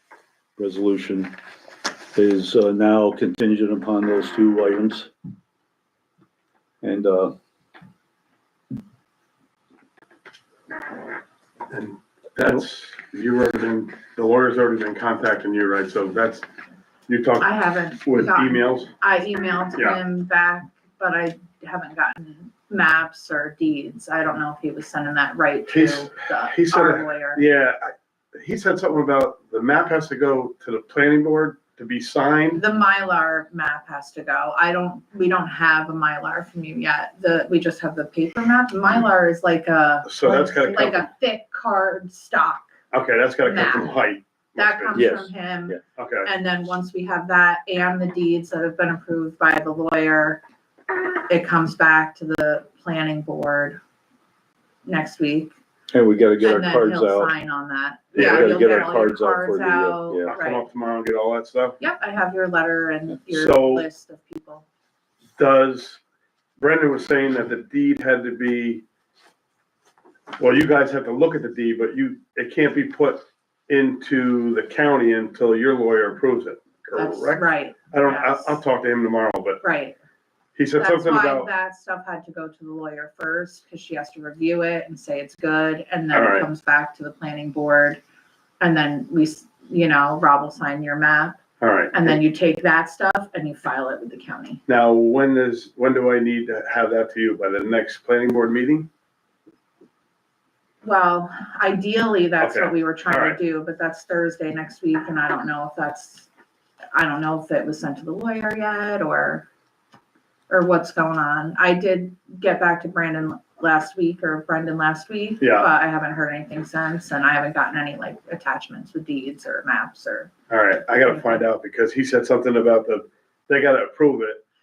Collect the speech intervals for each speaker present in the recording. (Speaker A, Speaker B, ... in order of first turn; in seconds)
Speaker A: 0.6-1.3, 2.1-5.1, 6.8-7.3, 44.9-45.8, 55.9-57.3, 58.1-60.3
Speaker B: 11.7-16.5, 17.1-18.9, 25.7-32.6, 40.0-41.1, 42.9-45.1, 46.0-46.3, 58.1-59.0, 60.3-61.8, 63.3-63.9, 65.4-66.0, 66.6-68.8, 70.4-79.6, 80.5-81.5, 86.1-86.5, 91.6-92.2, 94.7-98.9, 102.4-103.4, 115.4-115.7, 120.5-124.4
Speaker C: 17.4-27.4, 32.5-42.7, 43.4-50.4, 51.3-53.8, 54.8-55.5, 56.4-60.6, 61.8-64.6, 77.0-78.6, 79.6-80.0, 80.7-88.0, 88.6-91.4, 91.9-94.6, 100.8-106.3, 106.9-109.5, 110.5-120.3, 121.0-121.5